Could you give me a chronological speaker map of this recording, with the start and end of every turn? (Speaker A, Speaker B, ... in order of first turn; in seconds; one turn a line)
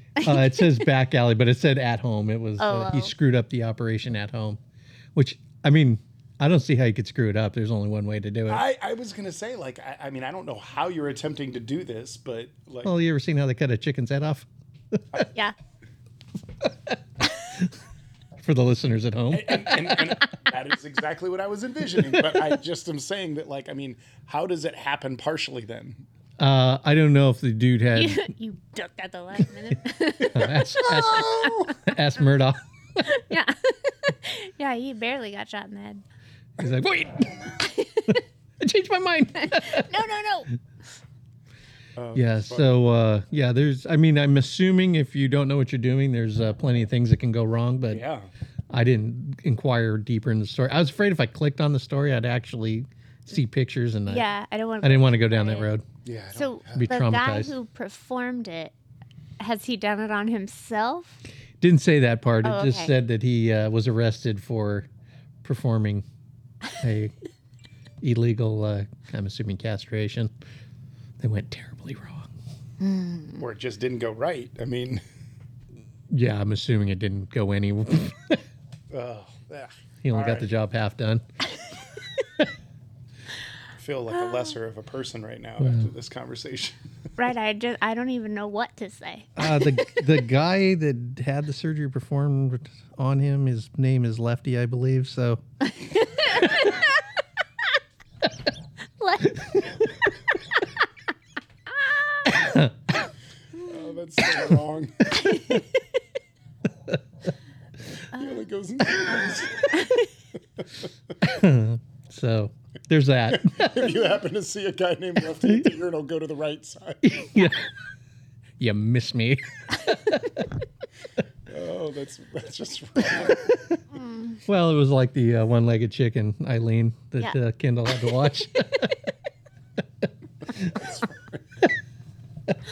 Speaker A: 0.2-0.8
Speaker B: 0.2-4.6
Speaker A: 2.6-3.1
Speaker B: 5.2-8.6
Speaker C: 8.5-12.9
Speaker B: 12.8-15.0
Speaker B: 18.4-20.0
Speaker C: 19.3-26.1
Speaker B: 22.1-22.5
Speaker B: 26.4-28.3
Speaker A: 27.9-31.6
Speaker B: 30.3-33.1
Speaker C: 30.8-31.7
Speaker A: 33.0-36.0
Speaker B: 36.6-37.4
Speaker A: 37.6-38.2
Speaker B: 38.6-39.9
Speaker A: 39.4-40.5
Speaker C: 42.0-42.7
Speaker B: 42.1-48.0
Speaker C: 47.9-48.3
Speaker B: 48.7-54.3
Speaker A: 54.1-55.7
Speaker B: 54.8-55.9
Speaker C: 56.0-56.9
Speaker A: 56.3-58.7
Speaker B: 56.7-57.5
Speaker A: 59.4-61.2
Speaker B: 61.6-64.9
Speaker A: 62.4-62.9
Speaker B: 65.4-66.0
Speaker B: 66.8-67.1
Speaker B: 68.0-70.3
Speaker B: 71.2-72.3
Speaker A: 72.8-73.4
Speaker C: 73.4-75.0
Speaker B: 76.1-78.4
Speaker C: 78.9-80.5
Speaker B: 80.0-81.2
Speaker C: 83.8-86.8
Speaker A: 84.1-84.6
Speaker B: 85.6-85.9
Speaker A: 87.2-89.4
Speaker B: 89.4-95.4
Speaker A: 95.8-97.0
Speaker A: 99.0-99.8
Speaker A: 101.8-102.5
Speaker B: 102.4-102.6
Speaker C: 103.7-105.6
Speaker A: 105.1-105.8
Speaker A: 108.1-108.5
Speaker C: 108.2-109.8
Speaker A: 109.8-110.0
Speaker B: 111.2-114.0
Speaker C: 113.3-117.0
Speaker B: 117.0-117.6
Speaker B: 118.6-120.3
Speaker C: 121.5-123.5
Speaker A: 124.0-124.4
Speaker B: 124.5-129.0
Speaker C: 130.6-131.6